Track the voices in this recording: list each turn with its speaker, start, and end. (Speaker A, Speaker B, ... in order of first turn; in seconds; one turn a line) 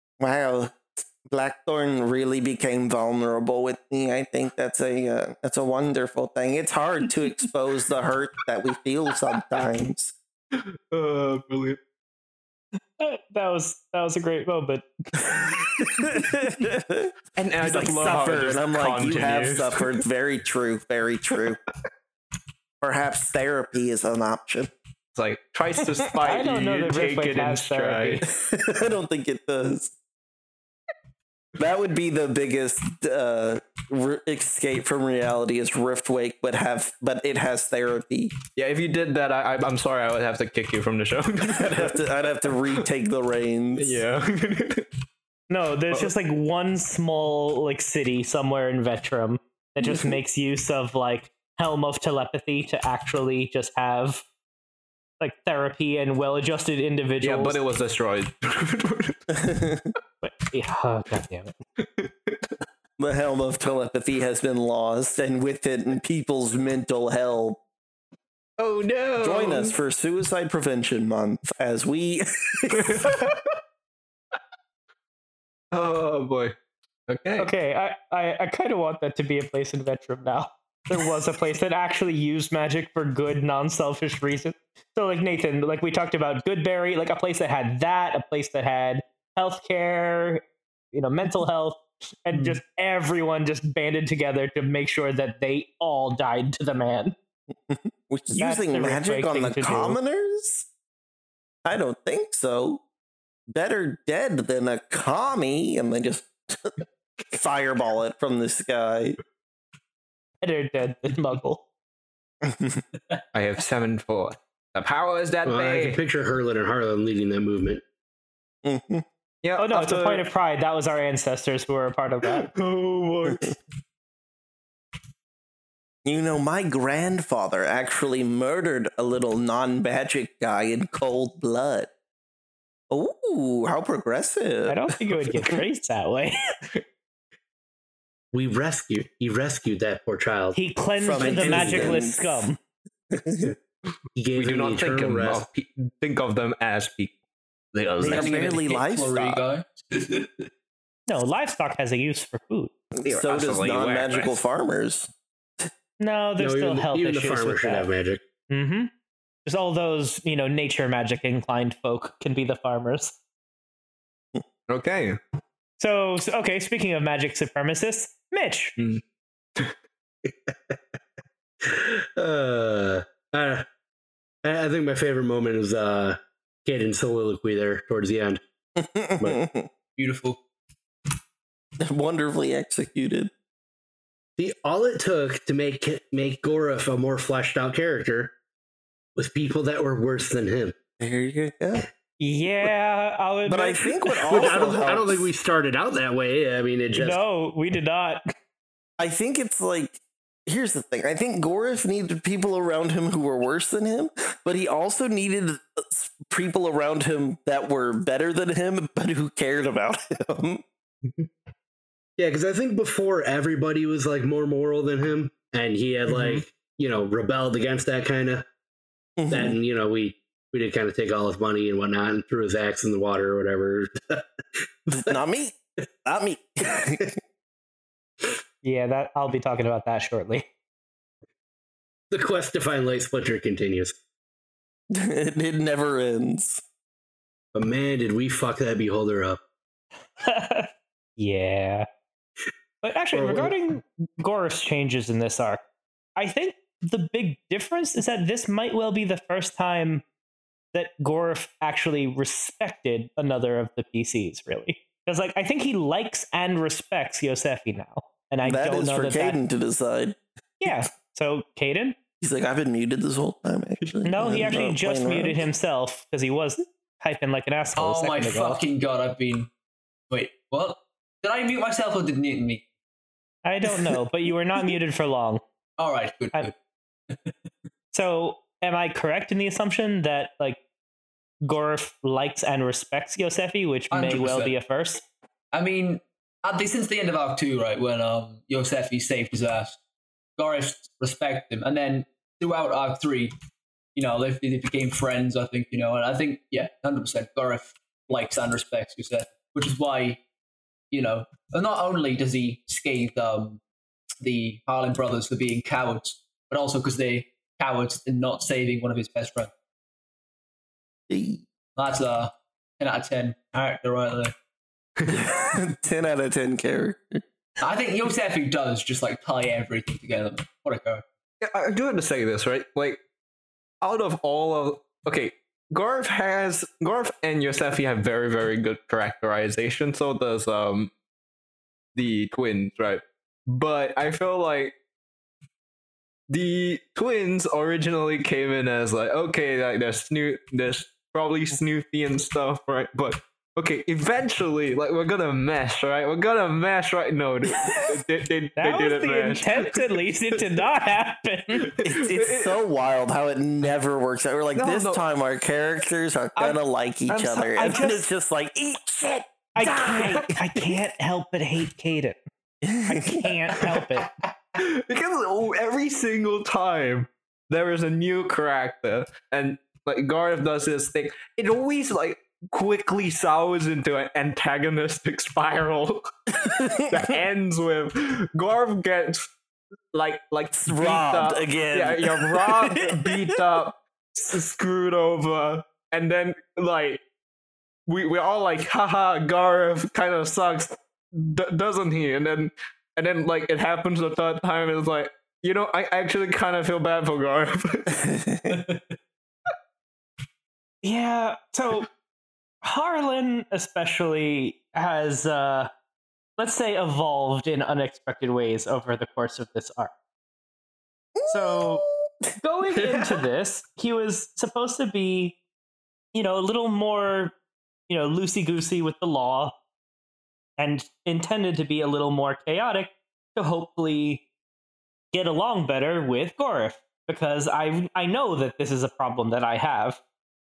Speaker A: 0.2-10.1
Speaker B: 10.5-11.8
Speaker C: 13.0-14.8
Speaker A: 15.2-21.6
Speaker B: 17.4-20.0
Speaker A: 22.8-24.7
Speaker B: 25.1-28.2
Speaker C: 26.2-28.2
Speaker A: 28.3-29.9
Speaker A: 31.6-38.3
Speaker B: 38.5-42.8
Speaker A: 41.4-44.0
Speaker B: 43.8-44.9
Speaker C: 45.5-54.2
Speaker A: 49.8-50.1
Speaker C: 55.2-57.6
Speaker B: 57.2-59.2
Speaker A: 59.3-59.9
Speaker C: 60.2-61.5
Speaker B: 61.8-62.5
Speaker A: 63.0-67.6
Speaker B: 68.6-69.7
Speaker A: 69.2-73.2
Speaker B: 72.7-73.4
Speaker B: 75.7-76.5
Speaker B: 77.1-77.5
Speaker C: 77.4-90.4
Speaker C: 90.9-97.1
Speaker A: 97.7-100.7
Speaker C: 98.3-100.0
Speaker A: 101.6-102.8
Speaker A: 103.5-109.2
Speaker C: 110.4-111.6
Speaker A: 112.4-112.8
Speaker B: 113.3-116.0
Speaker D: 115.4-117.8
Speaker A: 118.6-119.0
Speaker B: 119.4-120.2
Speaker C: 119.6-122.5
Speaker B: 122.4-123.5
Speaker A: 126.0-131.9
Speaker A: 132.9-135.6
Speaker C: 134.7-136.4
Speaker D: 138.3-140.6
Speaker C: 140.5-142.6
Speaker A: 141.0-142.5
Speaker D: 141.2-142.1
Speaker A: 143.1-143.5
Speaker D: 144.2-145.4
Speaker B: 144.3-147.2
Speaker B: 147.7-148.4
Speaker A: 148.0-149.4
Speaker E: 148.1-150.4
Speaker C: 151.1-152.7
Speaker A: 152.9-155.1
Speaker B: 153.0-154.4
Speaker C: 156.0-157.9
Speaker D: 156.4-158.2
Speaker C: 158.5-158.9
Speaker C: 159.4-163.1
Speaker B: 164.7-165.2
Speaker C: 165.8-168.7
Speaker D: 170.5-170.8
Speaker D: 171.6-173.6
Speaker D: 174.4-178.4
Speaker A: 178.8-179.7
Speaker E: 180.0-180.4
Speaker A: 181.8-183.3
Speaker D: 184.4-188.3
Speaker D: 189.2-190.7
Speaker A: 191.0-191.8
Speaker C: 192.2-194.7
Speaker A: 193.4-195.3
Speaker D: 194.3-197.2
Speaker C: 196.9-198.2
Speaker A: 199.0-210.6
Speaker D: 212.2-218.4
Speaker A: 219.2-219.6
Speaker D: 219.3-224.2
Speaker D: 224.9-225.1
Speaker A: 224.9-227.1
Speaker C: 228.6-230.4
Speaker D: 232.1-233.9
Speaker A: 234.9-236.6
Speaker D: 237.5-239.4
Speaker C: 240.2-241.9
Speaker C: 242.8-245.6
Speaker D: 243.1-243.5
Speaker C: 246.2-250.0
Speaker C: 250.7-259.4
Speaker A: 258.4-260.8
Speaker C: 260.6-261.9
Speaker A: 262.2-265.4
Speaker C: 264.0-268.6
Speaker E: 267.8-269.5
Speaker E: 270.1-272.6
Speaker C: 273.4-275.4
Speaker E: 275.8-276.5
Speaker C: 277.9-280.6
Speaker C: 281.4-285.0
Speaker E: 283.9-284.5
Speaker E: 285.5-289.8
Speaker E: 290.4-293.3
Speaker E: 293.9-300.2
Speaker E: 300.9-303.6
Speaker E: 304.2-309.5
Speaker A: 311.1-311.4
Speaker E: 311.8-314.3
Speaker A: 315.1-317.2
Speaker E: 317.6-321.0
Speaker B: 321.4-323.0
Speaker B: 323.8-330.9
Speaker B: 331.9-334.7
Speaker B: 336.3-349.8
Speaker A: 347.6-348.0
Speaker C: 348.6-351.7
Speaker B: 351.6-352.6
Speaker A: 351.8-360.2
Speaker B: 354.5-355.0
Speaker C: 356.4-358.1
Speaker C: 359.5-362.2
Speaker B: 359.9-360.4
Speaker A: 362.6-363.3
Speaker C: 362.9-364.1
Speaker B: 364.6-376.1
Speaker A: 376.4-377.1
Speaker B: 376.7-379.3
Speaker B: 379.9-387.0
Speaker A: 380.6-383.2
Speaker B: 387.9-398.0
Speaker A: 398.0-398.4
Speaker E: 398.5-398.8
Speaker C: 400.8-401.9
Speaker C: 402.6-405.7
Speaker C: 406.4-409.9
Speaker A: 411.1-412.0
Speaker C: 411.3-411.8
Speaker C: 412.4-415.4
Speaker C: 416.1-417.3
Speaker C: 417.9-419.5
Speaker C: 420.6-424.2
Speaker C: 425.1-430.0